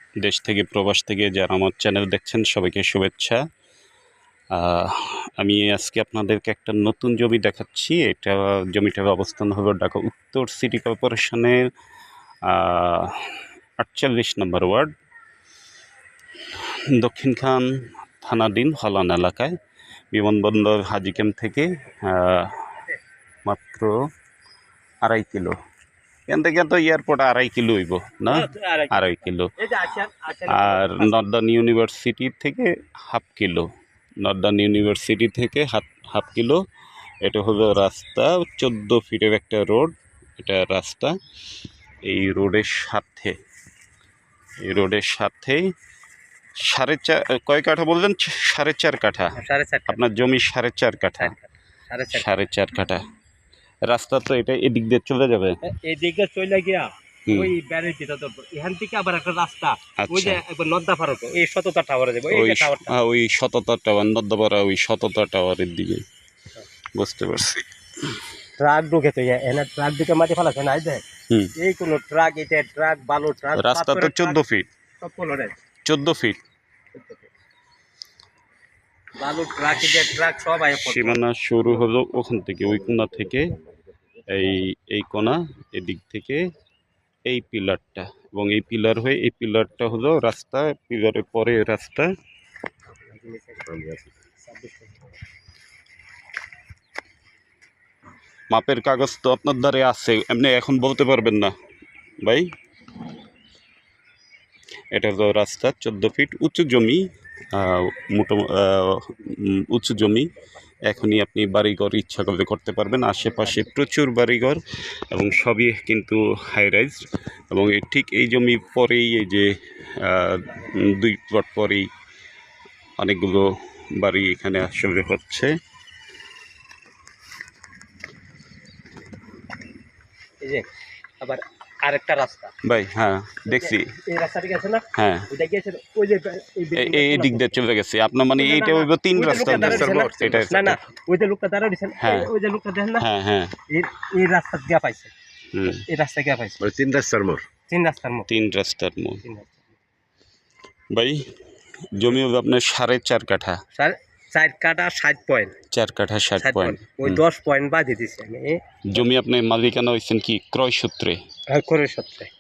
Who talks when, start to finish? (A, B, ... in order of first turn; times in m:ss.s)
0:00.2-0:03.4 A
0:04.5-0:11.6 A
0:12.4-0:14.9 A
0:16.5-0:19.6 A
0:20.1-0:22.8 A
0:23.4-0:24.0 A
0:25.0-0:25.6 A
0:26.3-0:29.5 A
0:28.3-0:31.3 B
0:30.5-0:36.6 A
0:37.2-0:41.2 A
0:42.0-0:43.4 A
0:44.6-0:45.7 A
0:46.6-0:49.4 A
0:49.4-0:50.0 B
0:49.9-0:51.4 A
0:51.2-0:52.4 B
0:52.1-0:53.0 A
0:53.9-0:55.6 A
0:55.6-1:03.0 B
0:57.3-0:57.5 A
1:00.0-1:00.4 A
1:02.3-1:06.0 A
1:07.0-1:07.7 A
1:08.6-1:14.4 B
1:13.6-1:14.7 A
1:15.0-1:15.6 B
1:15.8-1:16.4 A
1:16.9-1:17.3 B
1:19.2-1:21.2 B
1:20.7-1:23.6 A
1:24.3-1:26.5 A
1:27.3-1:32.1 A
1:33.0-1:33.8 B
1:33.7-1:34.0 C
1:34.4-1:35.1 B
1:38.5-1:41.5 A
1:42.2-1:42.5 A
1:44.9-1:50.3 A
1:50.8-2:01.9 A
2:03.0-2:05.6 A
2:10.4-2:10.7 B
2:11.2-2:12.6 B
2:12.6-2:13.9 A
2:13.5-2:17.6 B
2:14.9-2:15.3 A
2:16.8-2:20.8 A
2:18.4-2:23.1 B
2:19.3-2:20.6 C
2:22.0-2:22.3 A
2:23.0-2:23.6 A
2:23.7-2:25.1 B
2:25.5-2:25.8 A
2:25.7-2:26.6 B
2:26.6-2:27.5 C
2:27.7-2:28.3 B
2:28.3-2:29.2 A
2:29.2-2:29.6 B
2:30.9-2:31.3 A
2:31.9-2:33.6 A
2:33.7-2:35.6 B
2:35.7-2:37.2 A
2:36.4-2:39.0 B
2:38.8-2:41.2 A
2:41.5-2:42.3 B